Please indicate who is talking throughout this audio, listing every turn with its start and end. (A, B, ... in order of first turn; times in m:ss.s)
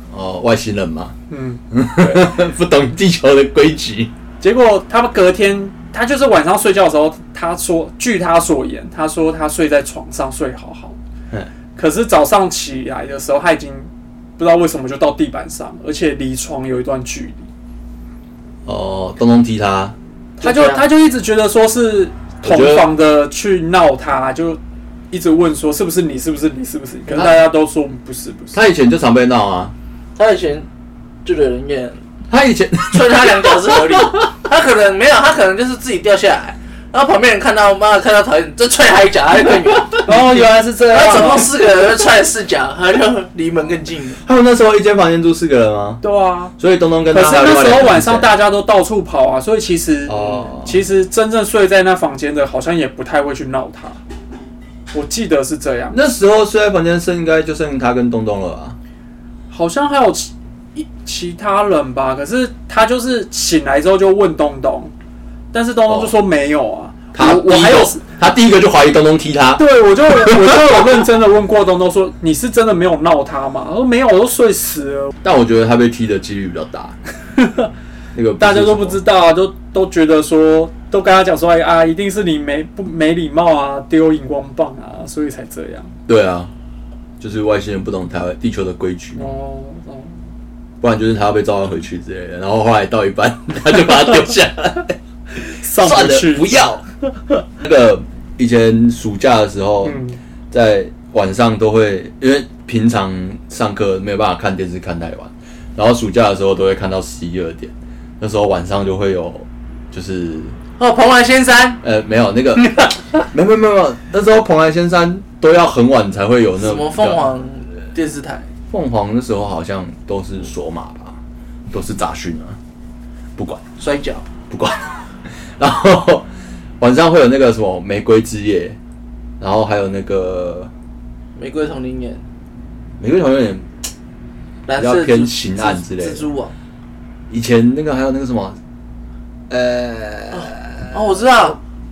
0:00.1-0:01.2 A
0:01.3-0:02.2 B
0:01.7-0:04.1 A
0:04.4-0:11.0 B
0:11.8-0:17.5 B
0:18.7-0:20.0 A
0:20.4-0:20.8 C
0:20.4-0:24.6 B
0:22.4-0:22.9 A
0:25.1-0:28.6 B
0:28.5-0:29.7 A
0:30.2-0:30.7 C
0:31.2-0:32.0 C
0:32.3-0:34.3 A
0:32.9-0:40.1 C
0:39.8-0:40.4 A
0:40.0-0:41.5 B
0:40.9-0:44.2 C
0:44.2-0:46.0 A
0:46.0-0:46.6 B
0:46.6-0:48.4 A
0:47.1-0:54.0 B
0:50.1-0:50.8 A
0:54.9-0:56.0 B
0:55.9-0:58.8 A
0:59.5-1:04.9 B
1:05.5-1:08.0 B
1:05.9-1:06.2 A
1:07.1-1:11.0 A
1:09.6-1:15.1 B
1:15.2-1:17.0 A
1:17.4-1:17.7 B
1:18.1-1:19.0 A
1:18.4-1:25.9 B
1:26.1-1:26.5 A
1:27.2-1:29.4 A
1:29.2-1:30.2 B
1:30.8-1:36.8 A
1:35.5-1:36.7 B
1:37.6-1:40.0 A
1:39.8-1:40.2 B
1:40.5-1:50.6 A
1:50.8-1:51.8 C
1:51.8-1:57.3 A
1:56.6-1:58.5 C
1:58.7-2:01.2 A
2:01.7-2:02.6 A
2:03.4-2:03.6 A
2:03.8-2:04.3 C
2:04.5-2:06.3 A
2:06.8-2:08.8 A
2:09.4-2:10.7 A
2:11.4-2:12.2 C
2:13.0-2:13.7 A
2:14.7-2:16.5 C
2:14.8-2:16.3 A
2:17.3-2:18.6 A
2:19.5-2:20.6 A
2:20.3-2:21.6 C